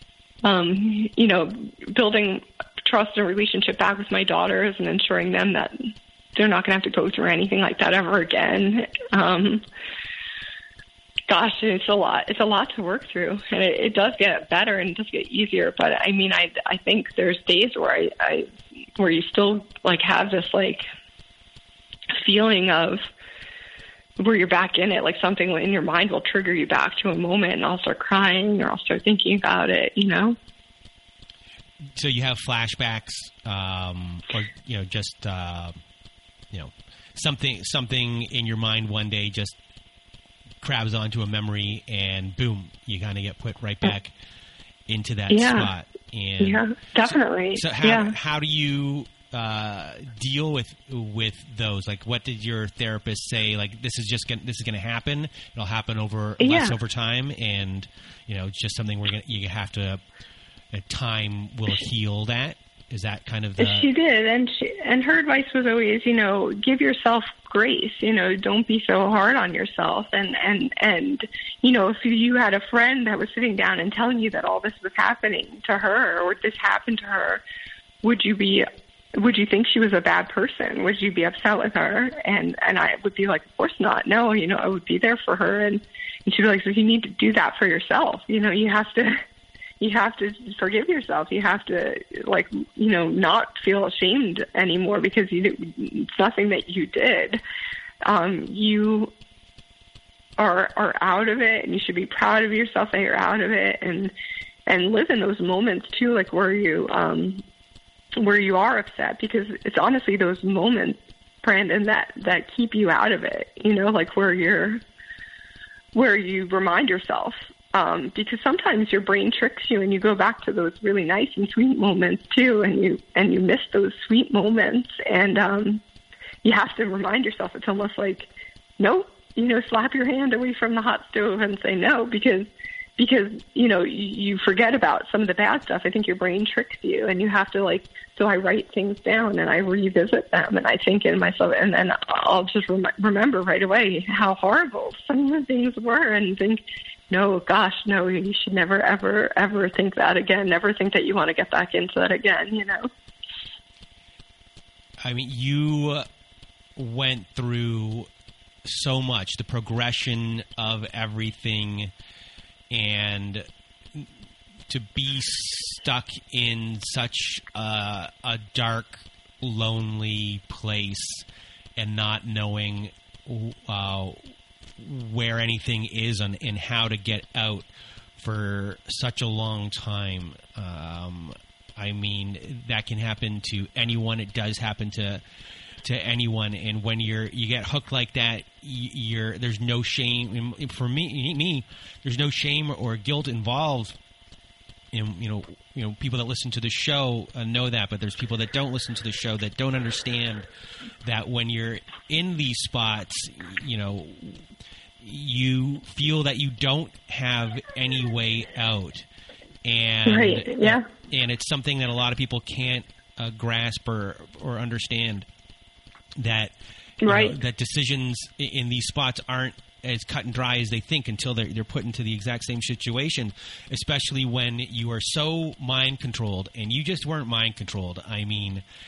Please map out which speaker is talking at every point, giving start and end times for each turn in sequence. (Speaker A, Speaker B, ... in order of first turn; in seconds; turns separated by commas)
Speaker A: 0.4-9.7, Speaker A: 11.3-20.9, Speaker A: 22.1-23.1, Speaker A: 24.2-30.4, Speaker B: 31.9-35.8, Speaker B: 36.5-39.6, Speaker B: 40.6-44.1, Speaker B: 44.9-60.0, Speaker A: 45.3-45.7, Speaker A: 46.4-48.1, Speaker A: 56.4-56.8, Speaker B: 60.7-63.9, Speaker A: 63.6-77.4, Speaker A: 78.0-89.2, Speaker A: 89.8-97.4, Speaker A: 98.0-99.1, Speaker A: 100.4-104.1, Speaker A: 104.7-107.4, Speaker A: 108.2-114.8, Speaker A: 115.9-125.8, Speaker A: 126.4-152.9, Speaker B: 155.0-156.1, Speaker B: 156.8-158.1, Speaker B: 158.7-161.9, Speaker B: 162.7-164.1, Speaker B: 164.7-171.2, Speaker B: 171.8-174.2, Speaker B: 174.8-185.2, Speaker B: 185.8-194.0, Speaker B: 194.9-200.5, Speaker B: 201.0-204.4, Speaker B: 205.0-209.1, Speaker B: 209.6-215.3, Speaker A: 210.1-210.9, Speaker B: 216.2-228.6, Speaker A: 217.0-217.3